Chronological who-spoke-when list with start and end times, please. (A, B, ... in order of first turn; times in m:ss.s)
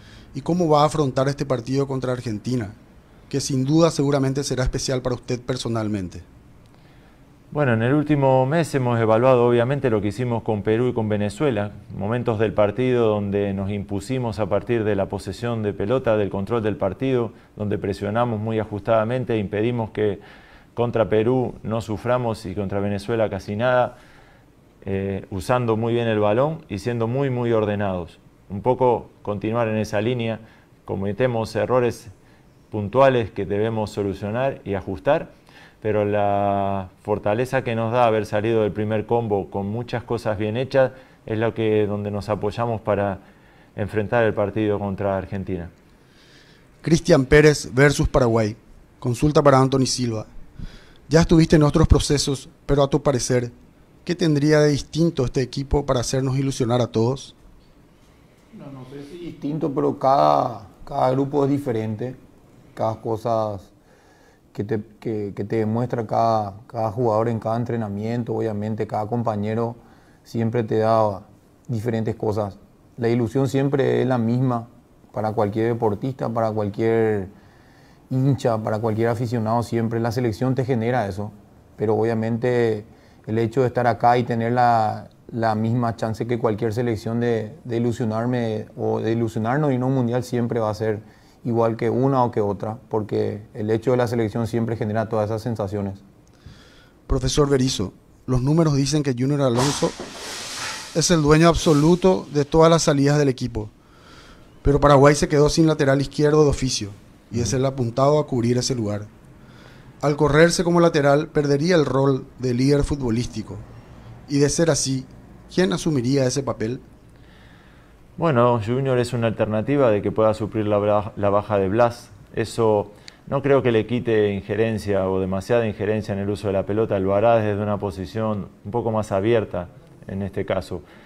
0:00.3-0:02.8 A
0:03.3-0:06.2 A
0:07.5-0:20.2 B
0:20.7-0:24.0 B
0:24.8-0:32.1 B
0:32.7-0:43.2 B
0:43.8-0:45.7 B
0:46.8-0:50.3 A
0:51.1-0:53.5 A
0:54.0-0:57.3 A
0:58.5-1:02.2 C
1:02.7-1:03.7 C
1:04.5-1:17.3 C
1:18.1-1:36.0 C
1:37.1-1:40.0 A
1:40.9-1:43.7 A
1:44.6-1:49.1 A
1:50.0-1:53.6 A
1:54.3-1:56.8 A
1:58.2-2:10.8 B